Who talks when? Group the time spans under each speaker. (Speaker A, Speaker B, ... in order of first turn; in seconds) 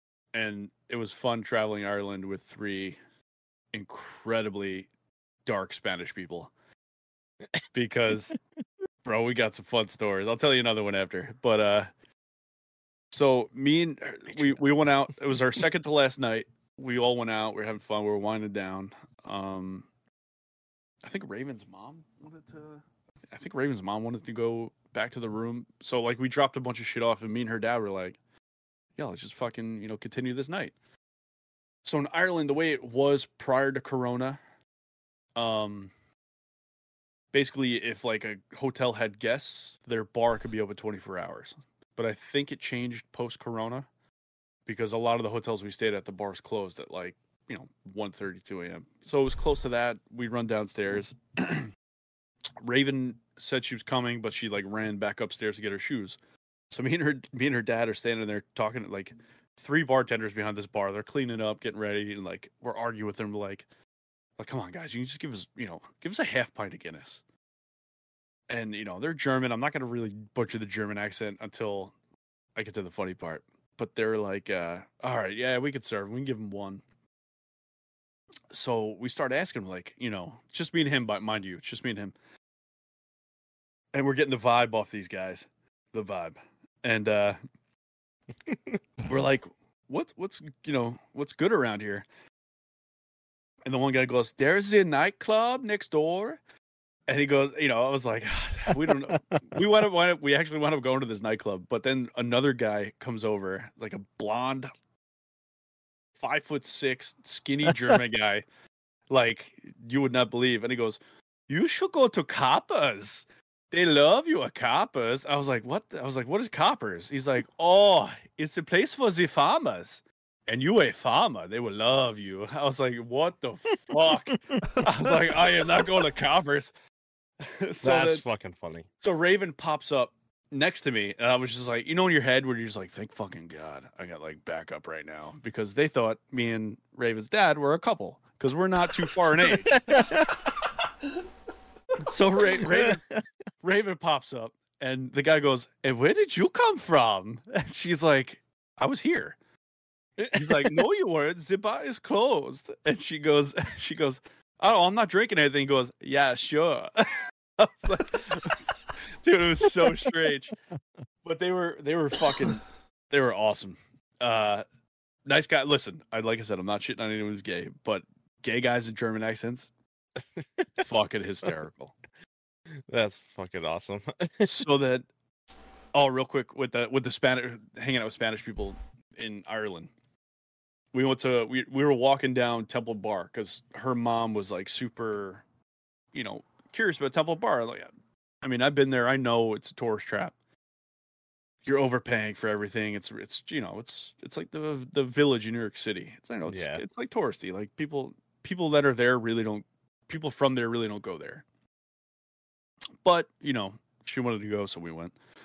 Speaker A: 0.3-3.0, 3.7-4.9, 5.5-6.5, 7.7-8.4, 9.1-11.9, 13.1-19.9, 21.0-28.2, 29.0-30.7, 31.8-34.4, 35.4-35.9, 37.3-43.9, 44.7-51.7, 52.6-56.2, 56.7-63.6, 64.4-67.2, 68.5-71.9, 72.6-76.8, 78.5-82.2, 83.9-87.4, 89.0-92.0, 93.7-96.4, 97.1-104.7, 106.2-108.5, 109.1-126.7, 127.4-128.2, 129.0-140.0, 142.0-143.0, 143.6-149.4, 150.2-160.6, 161.2-164.6, 165.3-169.7, 170.8-171.9, 174.4-175.1, 175.9-179.9, 180.9-185.4, 186.1-187.9, 188.4-190.3, 191.7-201.4, 203.0-205.1
Speaker B: 127.8-128.9, 139.5-140.4, 142.5-143.2, 150.4-150.8, 172.9-174.6, 196.5-196.8